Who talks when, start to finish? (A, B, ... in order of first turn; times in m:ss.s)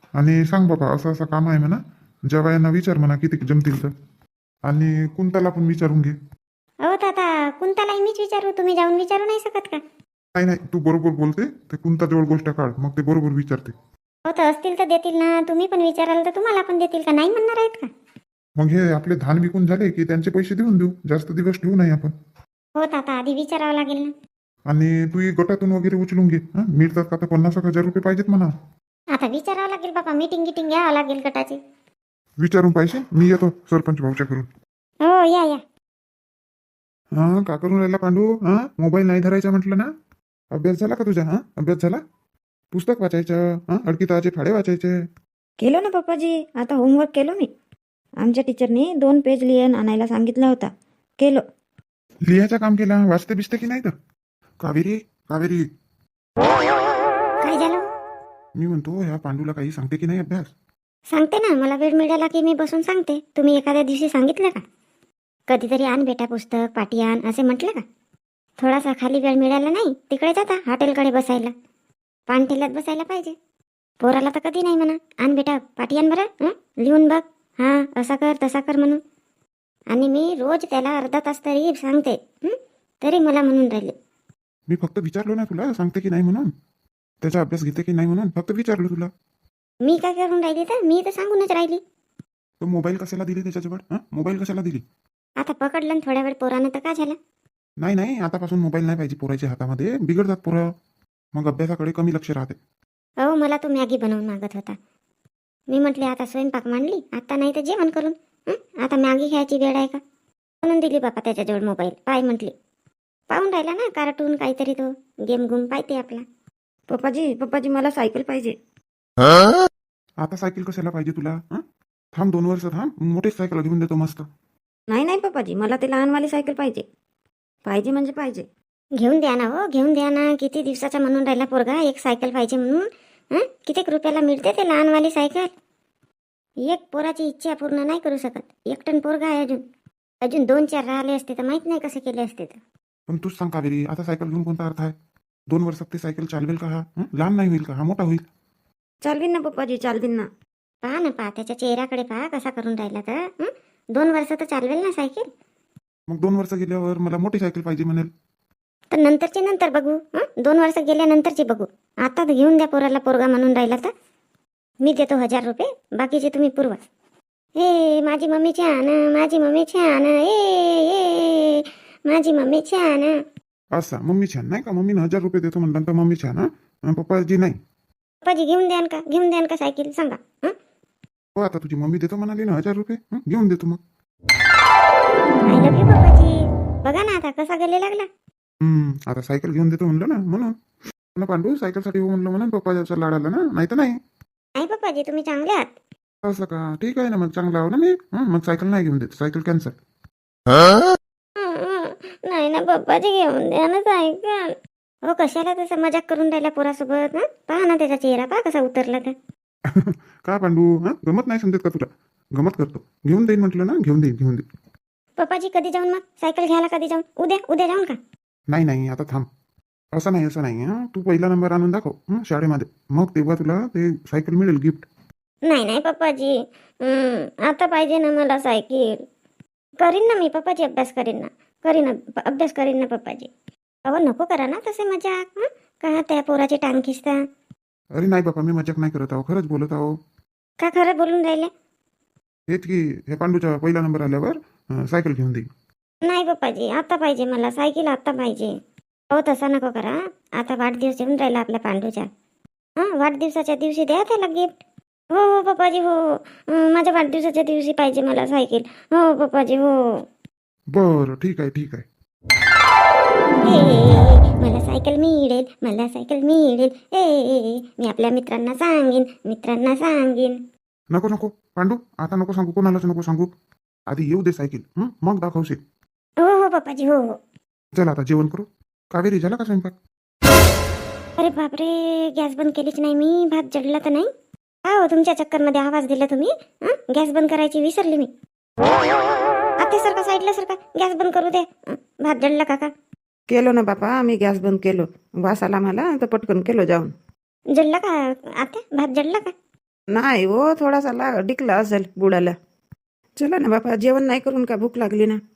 0:00.2-0:03.9 A
0:04.7-0:06.1 A
0:06.8-0:09.8 B
0:10.3-0:13.7 A
0:14.2-0:17.9 B
0:18.6-0:22.1 A
0:22.8-0:24.1 B
0:24.7-0:28.5 A
0:29.1-0:31.6 B
0:32.4-0:34.4 A
0:35.0-0:35.6 B
0:37.1-0:39.9 A
0:40.5-0:42.0 A
0:42.7-0:45.0 A
0:45.6-0:47.5 C
0:48.2-0:51.4 C
0:52.2-0:53.9 A
0:54.6-0:55.6 A
0:57.4-0:57.9 B
0:58.6-1:00.5 A
1:01.1-1:04.6 B
1:05.5-1:07.8 B
1:08.6-1:11.5 B
1:12.3-1:13.3 B
1:14.0-1:19.0 B
1:19.9-1:23.9 B
1:24.7-1:26.5 A
1:27.2-1:29.1 A
1:29.8-1:31.8 B
1:32.6-1:34.8 A
1:35.4-1:37.2 B
1:37.8-1:40.7 A
1:41.3-1:42.6 A
1:43.2-1:44.8 B
1:45.7-1:50.0 B
1:50.6-1:52.5 B
1:53.3-1:56.2 B
1:56.9-1:58.6 C
2:00.2-2:01.6 A
2:02.1-2:04.3 A
2:04.9-2:06.8 C
2:07.6-2:08.5 C
2:09.0-2:15.5 B
2:16.6-2:19.6 B
2:20.2-2:22.6 B
2:23.1-2:24.9 A
2:25.5-2:28.2 A
2:29.0-2:30.3 C
2:30.8-2:35.3 B
2:36.1-2:38.1 A
2:38.9-2:43.9 B
2:44.8-2:46.8 B
2:47.6-2:53.2 B
2:53.7-2:57.6 A
2:58.2-3:00.5 B
3:01.3-3:03.8 A
3:05.4-3:08.1 B
3:08.6-3:10.5 A
3:11.1-3:14.0 A
3:14.6-3:15.7 B
3:16.2-3:19.7 A
3:21.4-3:24.5 B
3:25.0-3:29.1 B
3:29.7-3:34.4 A
3:35.2-3:38.0 B
3:38.5-3:39.3 A
3:39.9-3:44.9 A
3:45.5-3:49.0 B
3:49.8-3:53.3 B
3:53.9-3:57.2 B
3:58.0-4:00.0 A
4:00.6-4:01.5 B
4:02.5-4:05.4 A
4:06.0-4:08.5 B
4:09.1-4:12.1 B
4:12.8-4:14.5 B
4:15.1-4:20.0 B
4:20.7-4:21.8 A
4:23.4-4:30.4 B
4:30.9-4:33.3 A
4:33.9-4:35.6 A
4:36.2-4:37.2 B
4:37.7-4:39.7 A
4:41.2-4:44.1 B
4:44.6-4:48.1 B
4:49.6-4:52.7 B
4:53.3-4:56.9 C
4:57.5-4:59.3 B
4:59.9-5:02.3 C
5:03.2-5:05.2 C